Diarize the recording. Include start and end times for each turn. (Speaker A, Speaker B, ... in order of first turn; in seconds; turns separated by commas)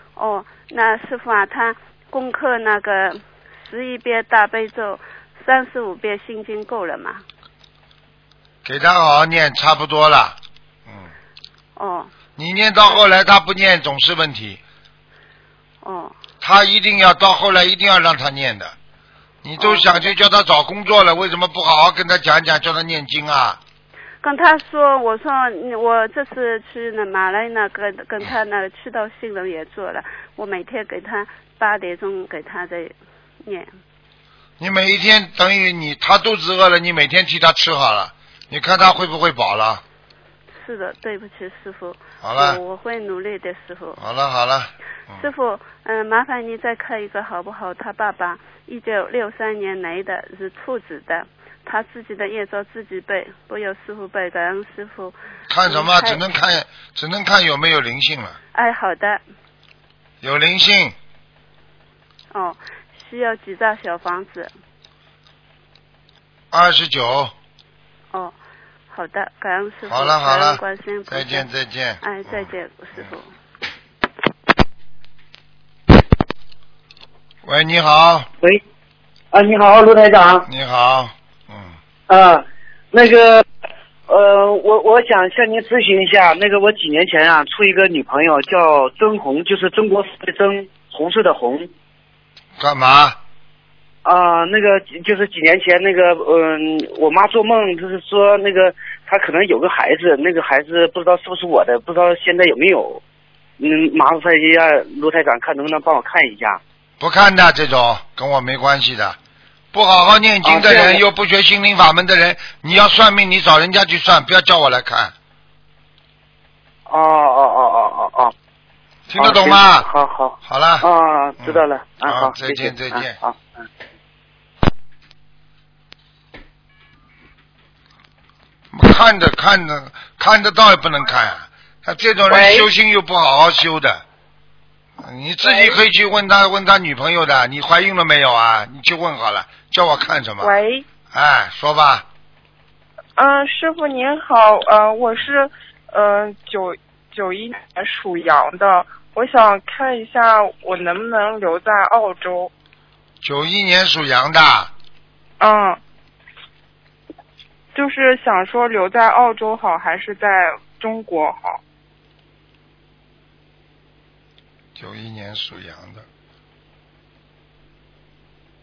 Speaker A: 0.2-7.2, Speaker B: 8.7-11.1, Speaker A: 11.8-12.1, Speaker B: 12.4-14.6, Speaker A: 15.8-16.1, Speaker B: 16.4-18.8, Speaker B: 19.4-23.6, Speaker A: 19.6-20.1, Speaker A: 24.2-33.7, Speaker B: 34.6-39.8, Speaker A: 40.6-44.0, Speaker B: 42.2-42.6, Speaker B: 44.0-45.3, Speaker A: 45.2-56.2, Speaker B: 55.5-58.4, Speaker A: 58.5-59.2, Speaker B: 60.2-61.0, Speaker A: 62.3-64.5, Speaker B: 66.5-67.3, Speaker A: 68.9-71.5, Speaker B: 69.9-72.5, Speaker A: 72.0-73.3, Speaker B: 77.5-78.3, Speaker C: 79.3-80.5, Speaker B: 80.5-81.8, Speaker C: 82.1-83.5, Speaker C: 84.1-91.7, Speaker B: 92.6-93.2, Speaker C: 94.0-103.0, Speaker C: 103.6-106.6, Speaker B: 107.0-109.2, Speaker B: 109.7-115.1, Speaker C: 110.4-111.0, Speaker C: 116.9-118.3, Speaker B: 119.1-119.9, Speaker C: 119.2-123.7, Speaker B: 120.4-120.9, Speaker B: 121.4-123.2, Speaker B: 128.7-134.0, Speaker C: 132.3-132.7, Speaker B: 135.0-140.6, Speaker D: 140.4-140.8, Speaker B: 141.1-142.1, Speaker D: 143.2-152.5, Speaker B: 153.2-154.7, Speaker D: 155.4-155.8, Speaker D: 157.7-161.6, Speaker B: 164.8-166.1